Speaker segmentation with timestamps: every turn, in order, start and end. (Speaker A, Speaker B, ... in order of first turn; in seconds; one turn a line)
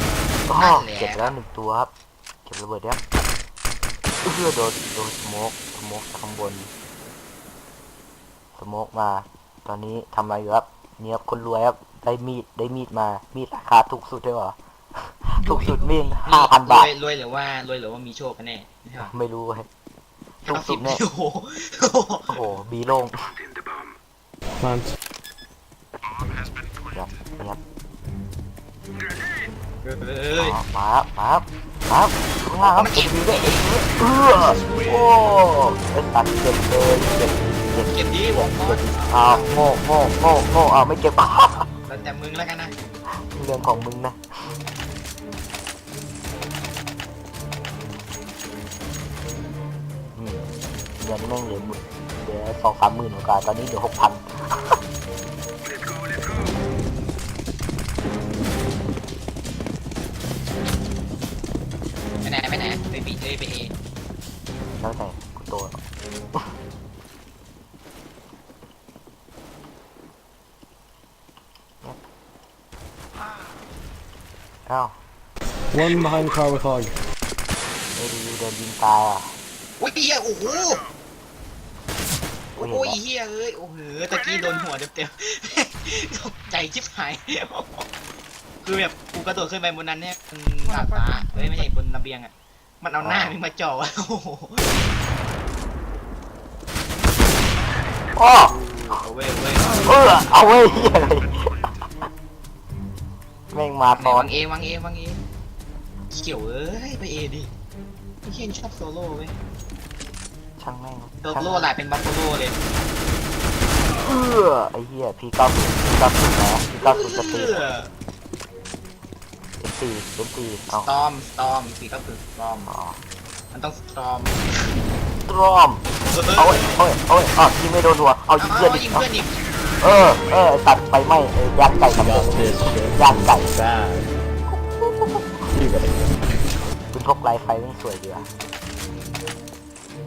Speaker A: 0.5-1.9
Speaker B: 0.5-1.4
Speaker A: 2.5-3.0
Speaker A: 4.2-6.7
Speaker A: 8.6-16.9
Speaker B: 16.2-19.1
Speaker A: 19.0-19.7
Speaker A: 20.4-21.0
Speaker B: 20.4-22.4
Speaker A: 22.3-23.4
Speaker C: 24.6-24.9
Speaker A: 26.9-27.6
Speaker B: 29.8-30.6
Speaker A: 30.4-41.7
Speaker B: 32.6-33.7
Speaker B: 37.7-39.7
Speaker B: 41.9-42.7
Speaker A: 43.1-44.2
Speaker A: 50.1-50.5
Speaker A: 51.0-54.8
Speaker B: 62.2-63.7
Speaker A: 64.8-65.8
Speaker A: 74.7-75.0
Speaker C: 75.7-77.0
Speaker A: 78.0-79.3
Speaker B: 79.8-80.8
Speaker A: 82.6-83.0
Speaker B: 82.6-87.9
Speaker B: 88.6-94.7
Speaker A: 93.0-93.3
Speaker A: 98.1-98.5
Speaker B: 98.4-100.1
Speaker A: 99.8-101.7
Speaker A: 103.5-104.3
Speaker B: 103.9-105.2
Speaker B: 106.1-107.5
Speaker B: 108.2-109.3
Speaker A: 110.6-111.7
Speaker B: 111.2-112.6
Speaker A: 114.0-117.7
Speaker B: 116.8-117.9
Speaker A: 119.6-121.0
Speaker B: 120.7-122.7
Speaker A: 122.7-123.0
Speaker B: 123.5-124.4
Speaker A: 125.2-129.1
Speaker B: 126.1-126.8
Speaker B: 128.4-129.3
Speaker A: 129.8-133.5
Speaker C: 131.7-134.1
Speaker A: 134.5-135.5
Speaker C: 135.5-136.1
Speaker A: 136.9-138.3